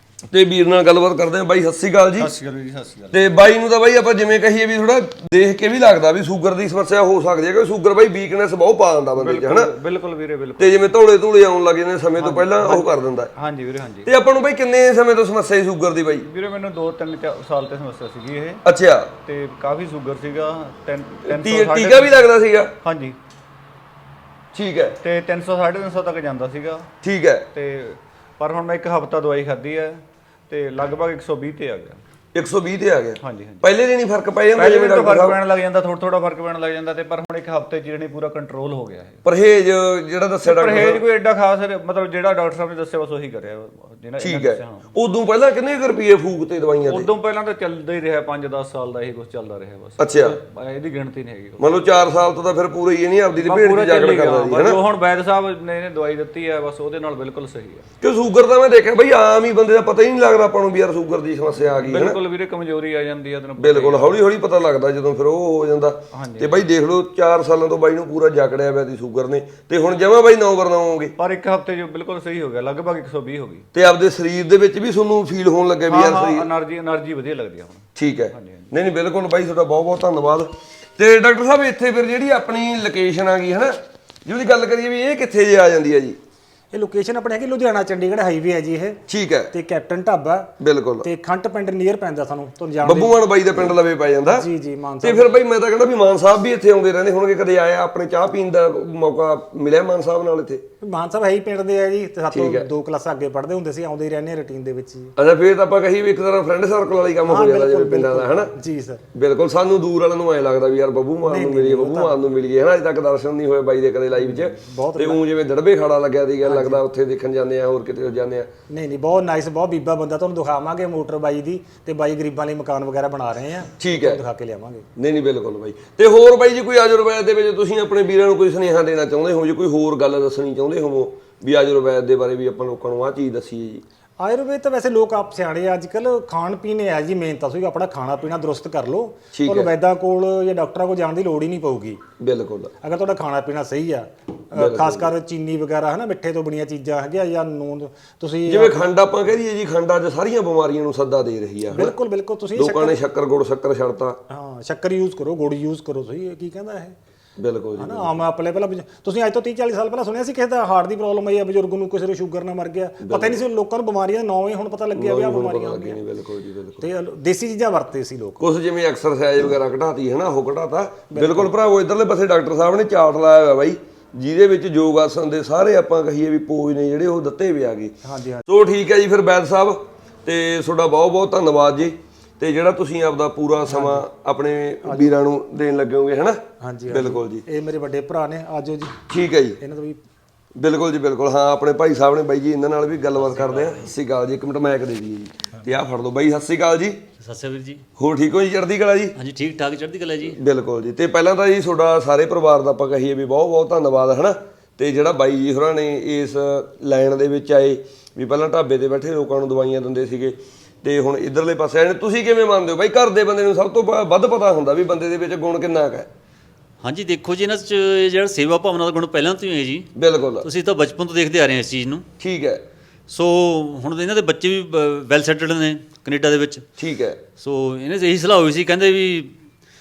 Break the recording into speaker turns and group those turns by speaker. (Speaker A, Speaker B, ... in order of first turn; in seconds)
Speaker A: 0.3-2.3, 3.1-9.7, 10.6-13.3, 14.0-16.3, 18.6-19.1, 21.2-22.7, 24.5-25.0, 27.0-27.5, 32.3-35.4, 39.2-41.0, 44.2-47.1, 50.0-50.4, 51.6-54.8, 58.0-62.2, 63.6-71.1, 73.7-76.5, 78.0-86.2, 89.1-89.5, 90.6-91.1, 92.8-94.5, 95.0-100.6, 102.3-102.7, 105.2-108.5, 109.1-118.5, 123.8-124.2, 125.0-133.8, 139.3-139.7, 142.2-142.7, 144.5-145.1, 148.4-151.9, 152.6-154.2, 157.4-158.2, 163.0-163.4, 164.9-166.8, 168.4-177.9, 178.4-187.4, 189.1-189.6, 190.6-197.0, 198.0-199.1, 200.3-216.1, 219.9-220.5, 222.2-222.6, 226.8-227.2
Speaker B: 2.2-3.3, 9.2-10.8, 12.2-14.1, 16.2-18.6, 19.2-22.2, 22.8-23.2, 25.0-26.9, 27.5-32.0, 33.2-33.7, 34.5-39.2, 40.4-44.9, 46.9-51.8, 53.3-57.8, 61.8-64.2, 66.1-66.6, 71.2-73.7, 75.9-78.7
Speaker C: 86.7-89.0, 89.5-93.7, 94.3-95.4, 100.8-105.1, 107.3-109.0, 111.3-112.2, 114.2-115.2, 116.4-116.8, 118.7-124.8, 134.2-142.0, 142.8-148.9, 151.7-152.9, 154.3-156.9, 157.8-166.0, 166.8-168.4, 171.1-171.5, 178.0-178.4, 183.7-184.0, 184.8-185.2, 186.6-188.9, 189.6-190.0
Speaker D: 193.2-193.9, 197.2-197.8, 199.2-200.4, 216.8-219.9, 220.4-222.1, 223.1-226.6, 227.3-229.3